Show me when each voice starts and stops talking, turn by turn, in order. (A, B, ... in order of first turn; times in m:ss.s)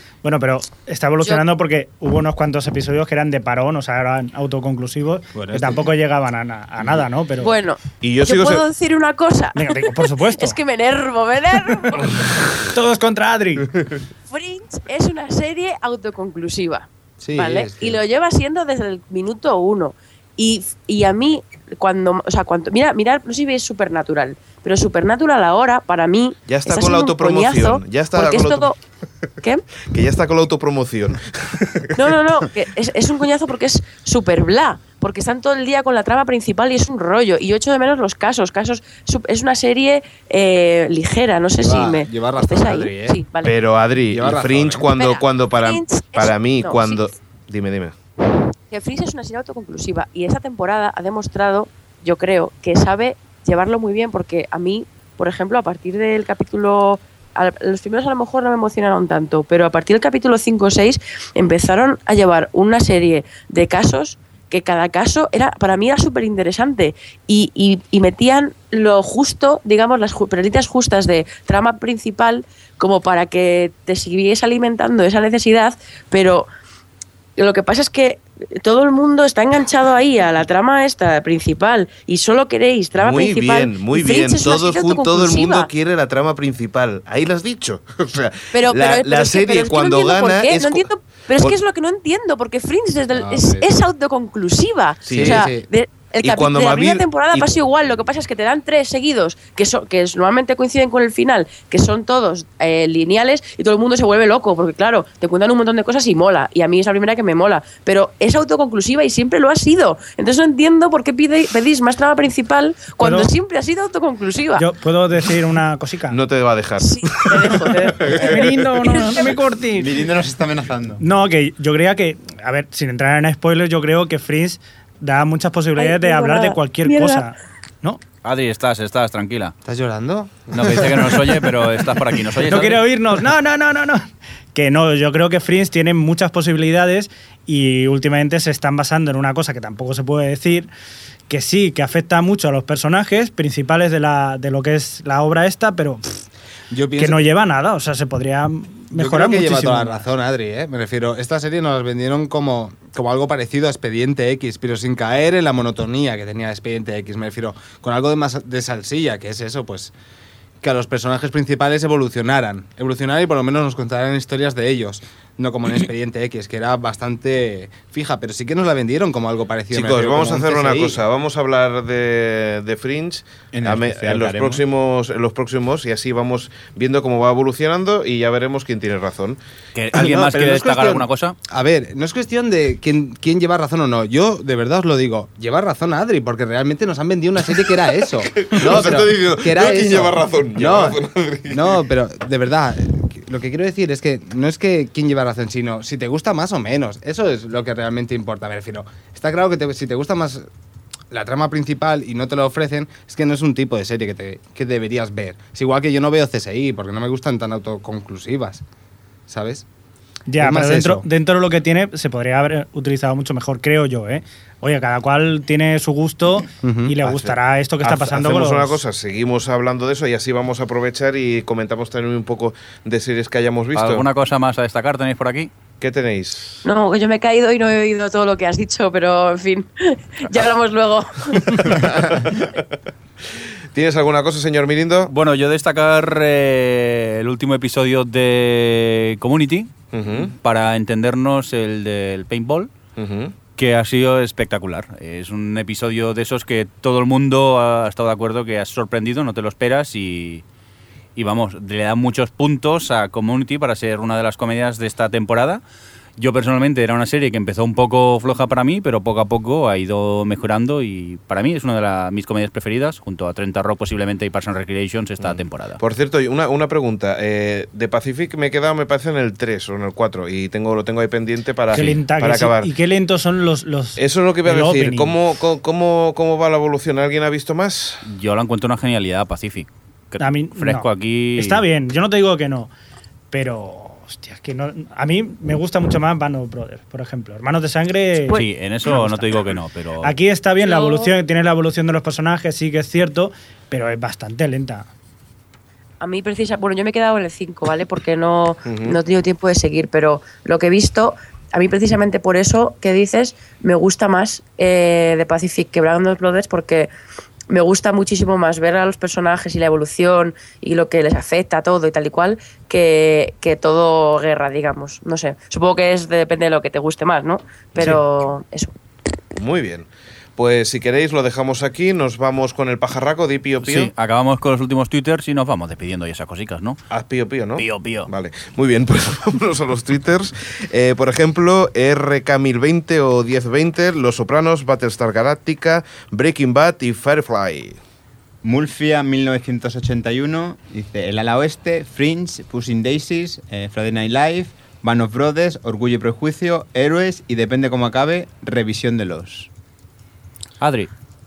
0:00.2-0:07.6 A
0:05.3-0:05.8 B
0:07.4-0:12.1 C
0:08.0-0:08.6 D
0:09.6-0:10.6 A
0:12.6-0:13.8 A
0:14.3-0:28.8 C
0:17.2-0:18.0 B
0:26.5-0:28.7 D
0:29.9-0:32.2 D
0:32.0-0:43.5 C
0:41.6-0:43.2 B
0:43.4-0:47.9 D
0:44.1-0:44.9 B
0:45.0-0:47.0 C
0:48.7-1:16.5 C
1:17.4-1:25.7 C
1:23.0-1:31.6 D
1:28.5-1:54.7 C
1:33.1-1:33.7 B
1:35.1-1:35.5 D
1:35.1-1:35.7 B
1:36.2-1:38.0 D
1:53.0-1:53.3 A
1:54.6-1:56.2 A
1:56.1-1:58.7 D
1:56.8-1:59.4 C
1:58.1-2:00.0 A
1:59.8-2:01.0 E
2:01.0-2:08.0 A
2:05.8-2:07.2 C
2:08.2-2:09.6 F
2:09.6-2:10.9 B
2:10.5-2:12.8 F
2:12.4-2:20.7 A
2:21.3-2:26.2 A
2:26.7-2:27.2 B
2:27.0-2:30.1 A
2:28.9-2:39.9 B
2:40.6-2:51.0 B
2:49.7-2:59.4 D
2:53.5-2:54.6 E
2:59.8-3:01.4 F
3:00.0-3:20.5 B
3:08.4-3:11.8 D
3:21.1-3:28.6 B
3:29.3-3:29.6 B
3:30.3-3:38.8 A
3:30.4-3:31.1 B
3:36.6-3:37.3 B
3:37.8-3:44.1 D
3:43.7-3:45.5 F
3:45.8-3:46.6 D
3:46.6-3:51.8 C
3:51.4-3:52.6 D
3:53.7-3:55.1 D
3:55.1-4:02.7 F
3:59.9-4:00.3 D
4:03.0-4:03.3 D
4:03.6-4:10.4 F
4:11.2-4:15.6 F
4:16.2-4:25.8 F
4:25.2-4:32.7 D
4:31.7-4:35.2 A
4:34.0-4:38.0 D
4:38.0-4:41.6 F
4:40.2-4:42.7 A
4:43.3-4:49.5 A
4:48.3-4:50.1 F
4:50.0-4:54.9 A
4:50.6-4:51.1 C
4:56.0-5:06.9 C
4:58.6-4:59.0 D
5:07.5-5:18.7 C
5:17.8-5:18.0 D
5:19.4-5:23.9 D
5:23.6-5:26.8 F
5:26.9-5:37.8 D
5:27.6-5:28.1 F
5:38.4-5:49.5 E
5:50.6-5:50.9 F